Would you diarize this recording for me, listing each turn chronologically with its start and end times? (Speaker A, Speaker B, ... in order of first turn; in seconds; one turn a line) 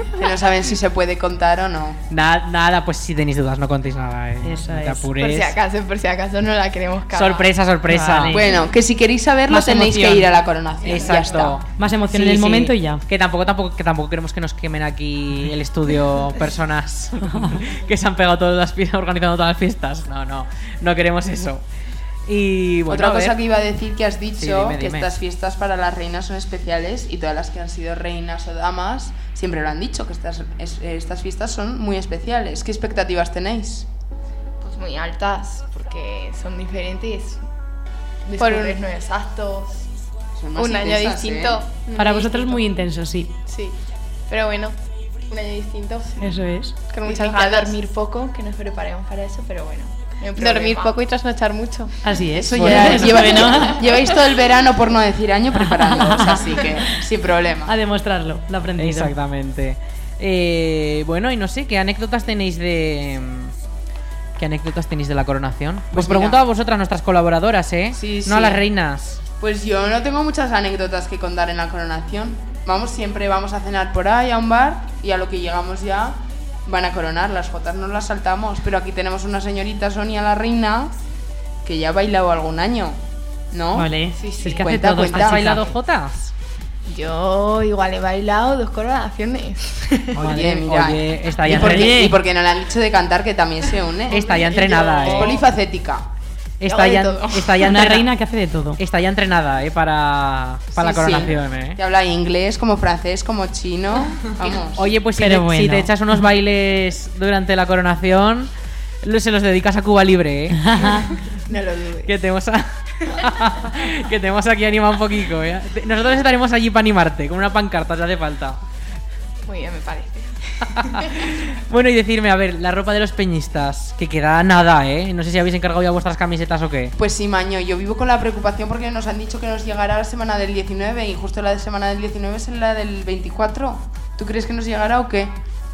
Speaker A: 0.2-2.0
Speaker B: 2.1-5.5
Speaker C: 4.4-5.1
Speaker D: 5.2-7.5
Speaker B: 7.1-8.4
Speaker C: 7.9-8.5
Speaker A: 8.3-11.6
Speaker C: 9.5-10.3
Speaker D: 10.8-11.5
Speaker B: 10.8-21.6
Speaker C: 11.8-13.0
Speaker C: 17.3-17.6
Speaker B: 22.2-23.4
Speaker A: 22.9-33.9
Speaker B: 24.4-25.1
Speaker D: 34.6-37.4
Speaker D: 38.2-39.8
Speaker E: 38.4-38.8
Speaker A: 40.4-41.6
Speaker E: 40.5-42.6
Speaker C: 41.9-43.3
Speaker E: 43.5-43.8
Speaker E: 44.3-44.7
Speaker E: 45.3-46.3
Speaker C: 46.2-46.8
Speaker E: 46.9-47.8
Speaker D: 47.0-50.9
Speaker E: 50.4-52.0
Speaker C: 52.0-53.8
Speaker A: 52.3-57.7
Speaker C: 55.9-56.3
Speaker C: 57.6-59.1
Speaker B: 58.8-63.5
Speaker B: 64.4-69.2
Speaker A: 65.9-66.4
Speaker A: 67.9-68.6
Speaker A: 69.4-80.9
Speaker A: 81.6-83.0
Speaker A: 83.5-83.9
Speaker C: 83.7-85.7
Speaker D: 84.2-84.6
Speaker A: 84.4-85.6
Speaker B: 85.0-86.3
Speaker D: 86.9-90.2
Speaker B: 90.2-92.1
Speaker A: 90.2-96.0
Speaker C: 91.5-92.2
Speaker B: 94.1-95.4
Speaker D: 94.7-95.2
Speaker B: 96.6-98.1
Speaker D: 96.6-97.5
Speaker C: 97.6-98.8
Speaker B: 98.8-101.8
Speaker A: 100.8-104.9
Speaker B: 104.7-108.5
Speaker C: 105.2-105.9
Speaker B: 109.0-111.0
Speaker C: 110.6-111.1
Speaker D: 111.5-112.1
Speaker B: 112.0-118.6
Speaker D: 119.5-120.2
Speaker B: 120.7-126.9
Speaker A: 127.0-135.3